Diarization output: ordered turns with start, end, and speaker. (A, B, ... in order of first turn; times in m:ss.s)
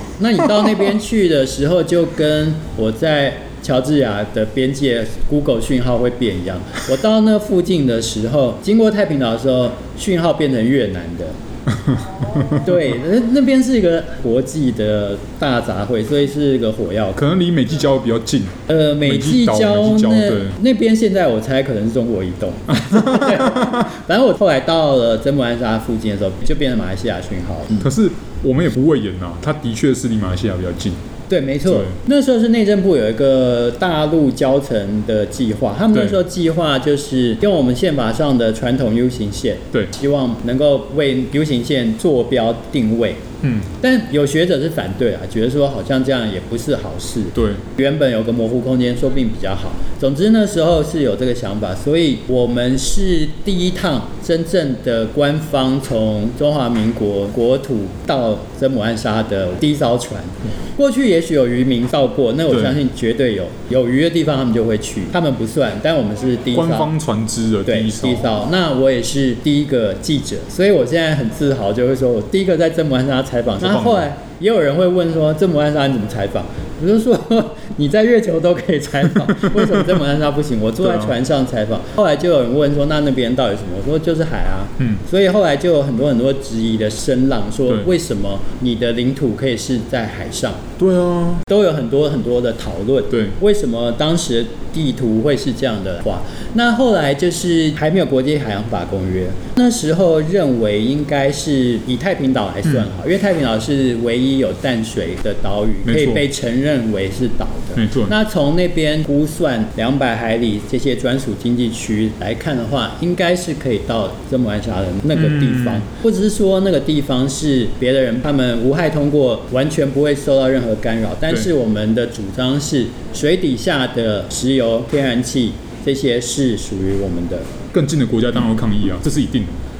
0:00.2-0:11.3 A
0:11.8-0:12.7 B
0:12.4-0:17.3 A
0:17.2-0:20.6 B
0:18.7-0:27.9 A
0:22.8-0:23.7 B
0:27.8-0:31.0 B
0:31.3-0:43.2 A
0:31.6-0:32.0 B
0:43.4-0:43.7 B
0:43.8-1:06.9 A
0:47.4-0:47.6 B
1:02.5-1:02.8 B
1:06.5-1:08.3 B
1:07.7-1:30.6 A
1:13.6-1:14.0 B
1:20.8-1:21.1 B
1:30.8-1:31.4 B
1:31.5-2:07.5 A
1:33.1-1:33.4 B
1:45.8-1:46.2 B
1:47.8-1:48.1 B
1:55.1-1:55.8 B
2:07.7-2:09.6 B